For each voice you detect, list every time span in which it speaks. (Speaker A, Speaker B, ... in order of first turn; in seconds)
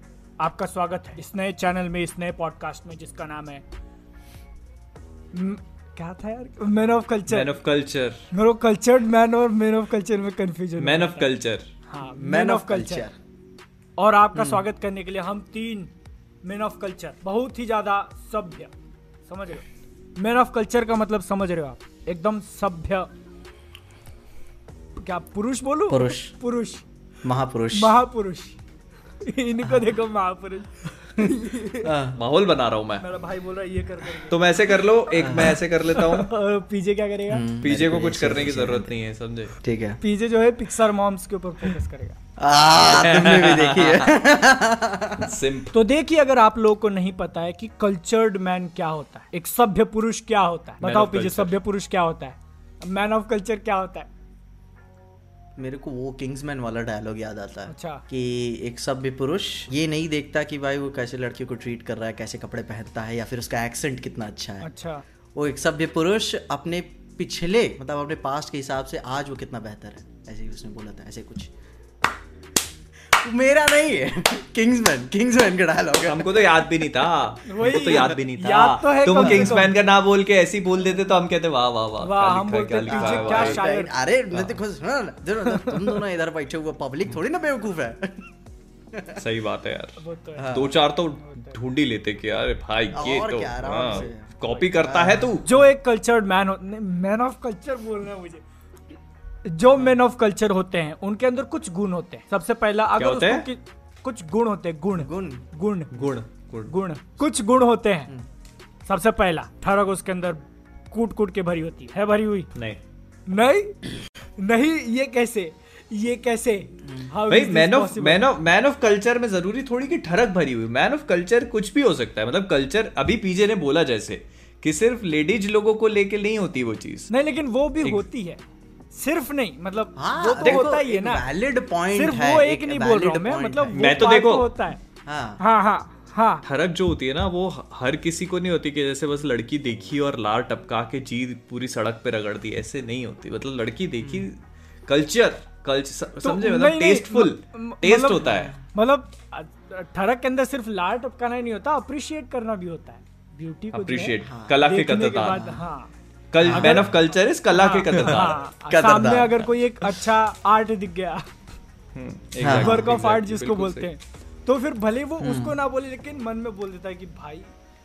Speaker A: 0.4-3.6, 5.3-7.6, 8.3-11.3, 11.9-13.1, 14.0-15.9, 16.4-18.7, 19.2-19.6, 20.2-23.1, 24.9-26.8, 27.7-28.6, 29.2-31.9, 33.0-34.4, 35.9-37.4, 40.0-42.2, 45.7-54.1, 57.7-58.0, 64.6-65.0, 77.4-79.8, 82.0-83.9, 90.0-90.6, 91.1-91.6, 95.4-98.4, 99.4-106.1, 106.7-108.1, 108.8-110.4, 110.9-112.5, 113.3-113.8, 114.4-118.2, 127.1-128.4, 128.9-131.3, 131.9-134.8, 135.4-136.4, 146.2-155.9, 156.5-156.9, 157.5-161.2, 162.5-167.5
Speaker B: 7.3-8.2, 10.8-11.7, 32.1-33.0, 34.3-36.3, 37.6-39.5, 42.9-44.1, 45.2-45.7, 50.8-51.5, 76.0-83.6, 85.5-86.0, 89.2-95.5, 103.0-103.5, 105.9-106.7, 112.5-112.8, 117.3-127.1, 133.7-134.5, 136.4-148.5, 153.7-155.4, 156.3-158.4, 161.9-163.9
Speaker C: 12.0-13.1, 14.3-14.7, 25.9-26.3, 27.2-28.0, 29.6-29.9, 31.8-32.2, 35.2-35.6, 37.3-38.9, 39.6-40.0, 42.4-45.3, 55.6-64.7, 65.3-71.5, 73.1-76.8, 77.8-78.1, 79.2-79.6, 82.9-88.3, 88.9-89.2, 90.3-90.8, 92.9-95.4, 105.0-105.4, 116.8-117.1, 129.9-133.8, 135.0-135.4, 144.0-144.3, 148.2-148.7, 154.2-154.6, 155.3-155.6, 156.4-156.8, 157.9-159.9, 162.4-162.9, 165.2-165.6